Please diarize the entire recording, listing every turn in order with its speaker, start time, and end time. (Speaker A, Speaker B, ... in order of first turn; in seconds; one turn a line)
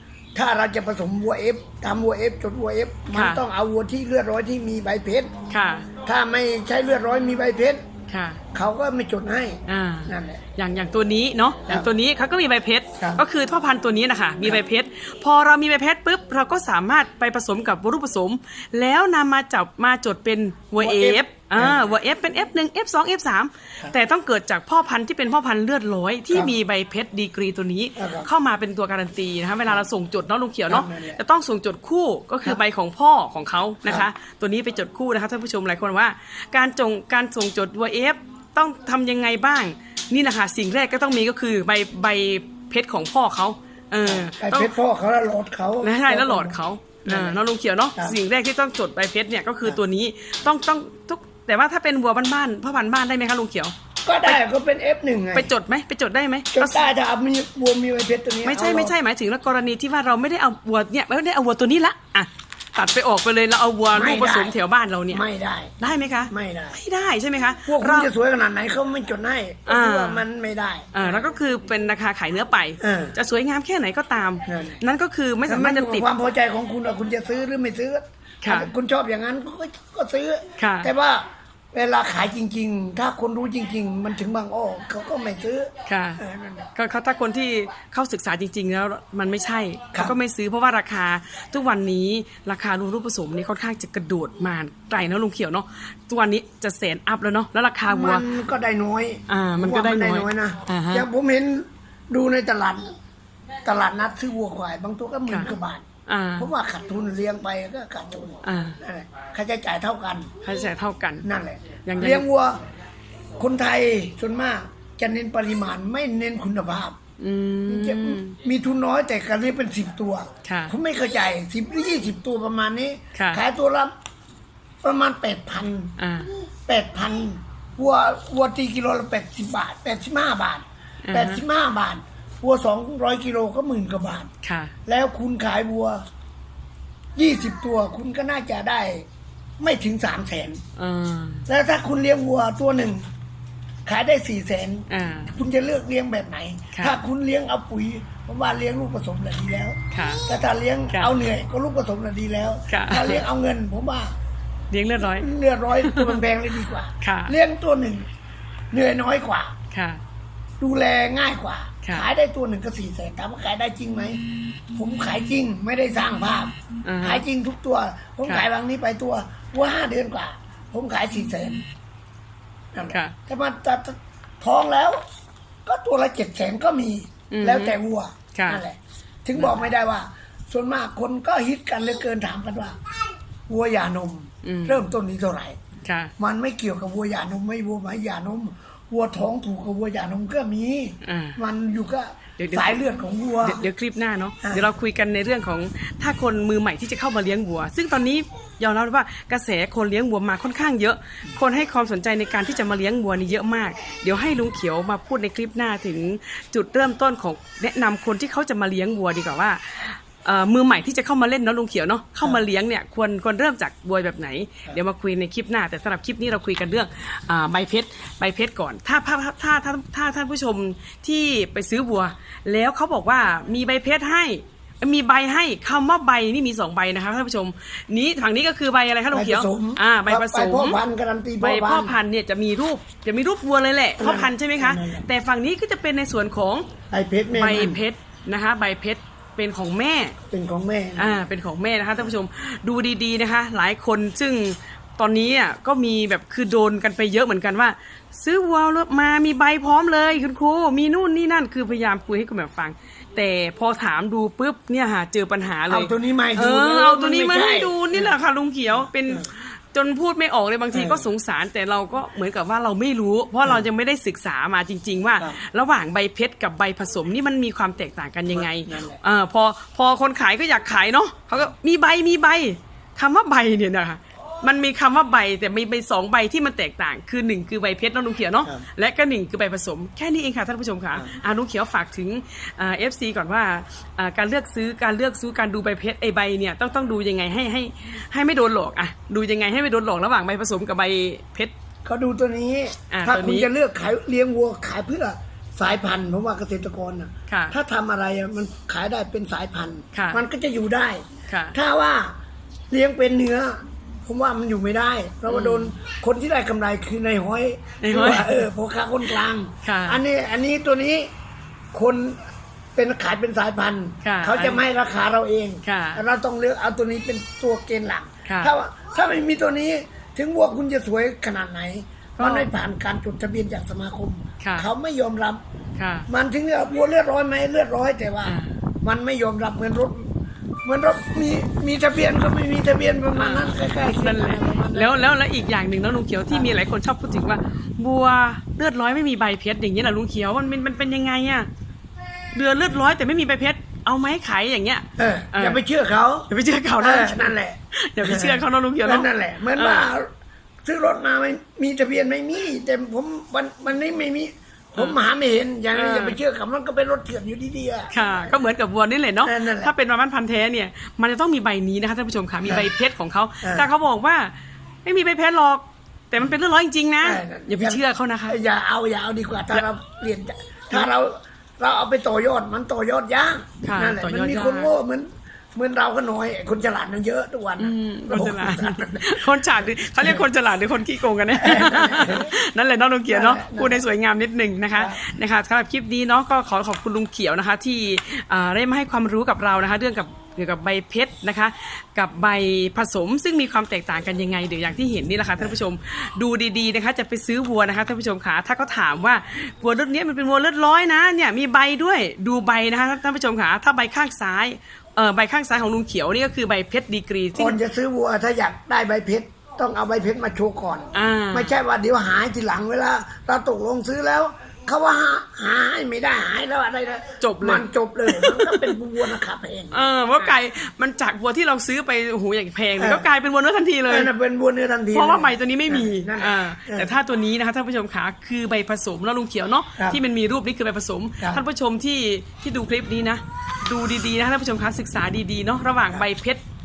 Speaker A: 0.3-5.3
Speaker B: 3.1-3.4
Speaker B: 5.5-5.9
Speaker A: 6.0-7.8
Speaker B: 8.1-8.4
Speaker A: 8.5-10.4
Speaker B: 9.7-44.7
Speaker A: 20.8-21.9
Speaker A: 28.0-28.3
Speaker A: 30.7-31.2
Speaker A: 44.0-47.4
Speaker B: 45.8-54.4
Speaker A: 54.1-55.5
Speaker B: 55.3-56.9
Speaker A: 56.5-59.0
Speaker B: 58.5-65.2
Speaker A: 63.9-64.6
Speaker A: 65.1-65.7
Speaker B: 65.8-68.1
Speaker A: 66.3-66.8
Speaker A: 67.7-71.2
Speaker B: 69.7-70.2
Speaker B: 70.9-76.1
Speaker A: 72.8-73.2
Speaker A: 74.5-74.8
Speaker A: 75.5-86.7
Speaker B: 78.4-78.7
Speaker B: 80.6-80.9
Speaker B: 85.9-86.2
Speaker B: 86.8-98.2
Speaker A: 97.9-102.9
Speaker B: 99.3-101.1
Speaker A: 103.6-105.8
Speaker B: 105.3-105.5
Speaker B: 106.1-106.5
Speaker A: 106.4-110.3
Speaker B: 108.4-108.8
Speaker B: 110.4-111.3
Speaker A: 111.2-112.6
Speaker B: 111.8-112.2
Speaker A: 113.4-117.0
Speaker B: 117.2-118.4
Speaker A: 117.7-123.9
Speaker B: 120.4-120.7
Speaker B: 123.1-123.4
Speaker A: 124.8-126.0
Speaker B: 126.0-126.3
Speaker A: 126.7-134.3
Speaker B: 131.1-131.4
Speaker B: 134.4-134.7
Speaker A: 134.9-136.0
Speaker A: 137.2-139.1
Speaker A: 139.6-140.6
Speaker B: 140.8-141.5
Speaker A: 141.5-143.1
Speaker A: 143.9-154.2
Speaker B: 144.9-145.3
Speaker B: 146.7-147.0
Speaker B: 149.9-150.3
Speaker B: 152.7-153.2
Speaker B: 154.7-155.3
Speaker A: 155.1-158.1
Speaker B: 155.8-156.2
Speaker B: 157.0-157.3
Speaker A: 158.7-159.6
Speaker B: 159.7-160.0
Speaker A: 160.6-164.2
Speaker B: 161.8-162.1
Speaker A: 164.7-171.6
Speaker B: 166.8-167.2
Speaker A: 172.7-175.0
Speaker B: 172.9-173.1
Speaker A: 175.7-182.8
Speaker B: 177.3-177.8
Speaker B: 178.3-178.6
Speaker A: 183.5-185.6
Speaker B: 184.4-184.8
Speaker B: 185.8-186.1
Speaker A: 186.2-193.6
Speaker B: 191.0-191.4
Speaker B: 192.4-192.8
Speaker B: 193.4-230.8
Speaker A: 194.4-194.7
Speaker A: 229.1-232.0
Speaker B: 231.4-236.7
Speaker A: 234.0-235.1
Speaker A: 236.9-237.8
Speaker B: 237.3-240.2
Speaker A: 240.3-241.3
Speaker B: 241.0-291.5
Speaker A: 255.7-258.2
Speaker A: 260.7-261.1
Speaker A: 268.3-269.0
Speaker A: 291.9-302.1
Speaker B: 292.9-293.5
Speaker B: 297.3-297.6
Speaker B: 299.9-300.2
Speaker B: 301.3-301.6
Speaker A: 302.7-311.1
Speaker B: 305.3-305.7
Speaker B: 307.8-308.5
Speaker B: 309.6-310.0
Speaker A: 311.7-312.2
Speaker A: 312.8-325.4
Speaker B: 314.0-314.6
Speaker B: 315.6-316.0
Speaker B: 318.2-318.5
Speaker B: 322.2-322.5
Speaker B: 324.4-324.7
Speaker B: 325.8-326.1
Speaker A: 326.1-330.1
Speaker B: 328.2-328.6
Speaker A: 330.6-335.1
Speaker B: 333.1-341.5
Speaker B: 342.3-345.6
Speaker A: 345.0-350.1
Speaker B: 346.3-349.9
Speaker A: 350.6-358.3
Speaker B: 355.7-356.2
Speaker B: 357.9-364.3
Speaker A: 359.2-359.7
Speaker A: 363.4-363.7
Speaker B: 364.9-368.4
Speaker A: 367.0-379.4
Speaker B: 373.6-374.7
Speaker B: 377.6-407.6
Speaker A: 380.0-380.2
Speaker A: 381.3-382.3
Speaker A: 383.1-383.8
Speaker A: 384.8-385.0
Speaker A: 407.3-419.9
Speaker B: 410.9-411.6
Speaker B: 417.2-418.8
Speaker B: 419.7-424.1
Speaker A: 422.8-423.1
Speaker A: 423.9-427.0
Speaker B: 424.9-436.4